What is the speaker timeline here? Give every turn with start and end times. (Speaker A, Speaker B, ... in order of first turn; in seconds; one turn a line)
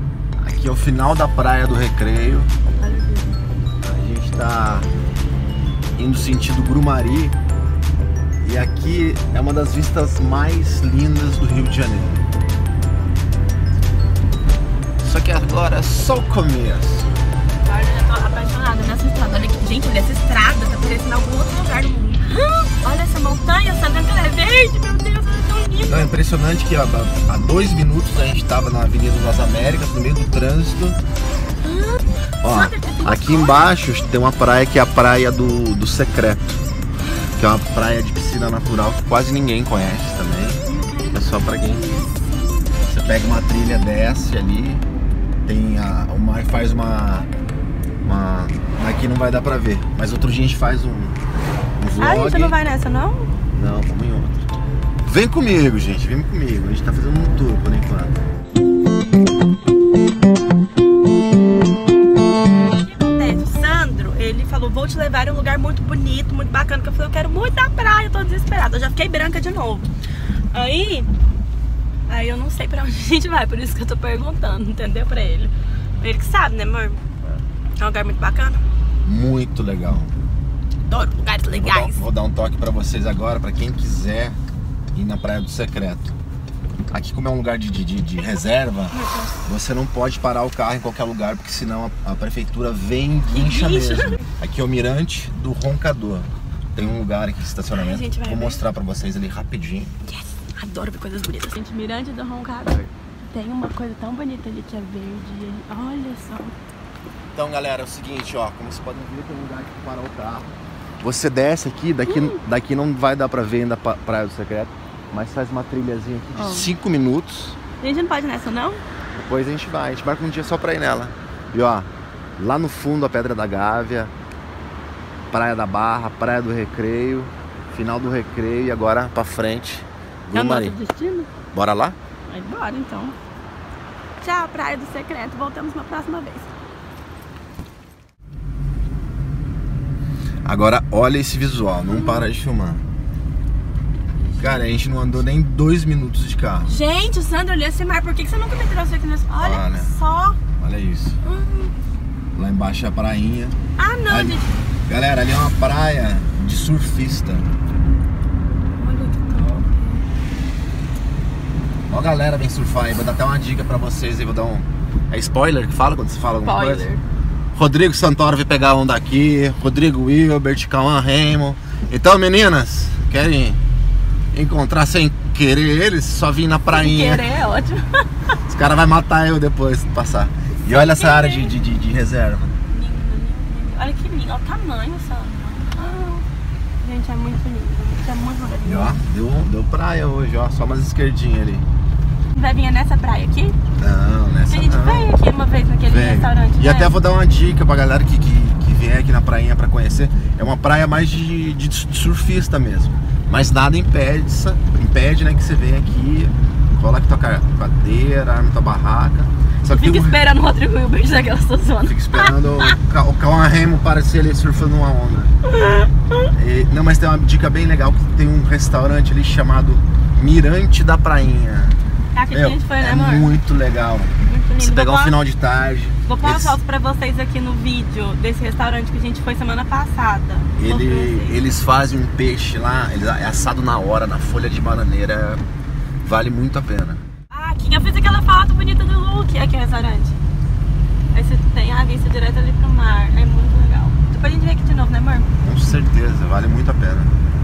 Speaker A: 0.4-2.5
Speaker B: 2.8-3.4
Speaker A: 3.8-4.9
Speaker A: 6.0-7.3
Speaker A: 8.4-12.3
Speaker A: 15.0-17.1
Speaker B: 17.6-26.1
Speaker A: 25.9-31.0
Speaker B: 31.6-33.7
Speaker A: 32.4-36.6
Speaker A: 37.4-41.9
Speaker B: 40.6-43.0
Speaker A: 42.9-44.9
Speaker A: 45.4-47.3
Speaker A: 48.0-51.2
Speaker A: 51.8-52.5
Speaker B: 52.0-53.3
Speaker A: 53.5-54.5
Speaker A: 55.0-58.2
Speaker B: 62.7-69.9
Speaker B: 70.5-71.1
Speaker B: 72.1-77.0
Speaker B: 77.8-78.6
Speaker A: 79.0-80.1
Speaker B: 80.9-82.0
Speaker A: 81.5-84.4
Speaker A: 84.9-86.2
Speaker A: 86.9-99.9
Speaker B: 88.9-89.4
Speaker B: 93.3-94.2
Speaker B: 97.7-98.6
Speaker B: 100.0-106.5
Speaker A: 107.3-117.6
Speaker B: 112.1-112.4
Speaker B: 116.3-116.7
Speaker B: 117.8-118.8
Speaker A: 119.2-124.1
Speaker A: 125.3-130.8
Speaker B: 130.3-131.3
Speaker A: 131.5-131.9
Speaker B: 132.3-133.2
Speaker B: 134.2-136.5
Speaker A: 140.4-142.8
Speaker B: 141.8-142.2
Speaker B: 144.3-144.8
Speaker A: 144.3-146.7
Speaker B: 146.7-150.4
Speaker A: 149.4-150.0
Speaker A: 150.6-151.2
Speaker B: 151.2-151.7
Speaker A: 152.3-153.5
Speaker B: 153.8-154.5
Speaker A: 154.1-157.5
Speaker B: 158.8-160.0
Speaker A: 161.9-166.9
Speaker B: 166.4-167.0
Speaker A: 167.5-173.6
Speaker A: 174.3-177.2
Speaker B: 176.7-178.0
Speaker A: 178.5-182.6
Speaker B: 180.6-181.5
Speaker B: 182.7-186.2
Speaker B: 186.8-189.0
Speaker A: 188.6-191.7
Speaker B: 192.3-193.6
Speaker A: 193.8-195.1
Speaker B: 194.5-196.9
Speaker A: 195.9-210.2
Speaker B: 209.7-212.8
Speaker A: 211.8-215.3
Speaker B: 215.5-216.3
Speaker A: 216.3-221.8
Speaker B: 222.1-223.4
Speaker A: 222.3-226.6
Speaker B: 224.3-225.2
Speaker B: 226.1-231.4
Speaker A: 230.6-235.4
Speaker A: 236.0-237.0
Speaker B: 237.3-240.2
Speaker B: 241.1-245.3
Speaker A: 245.4-247.1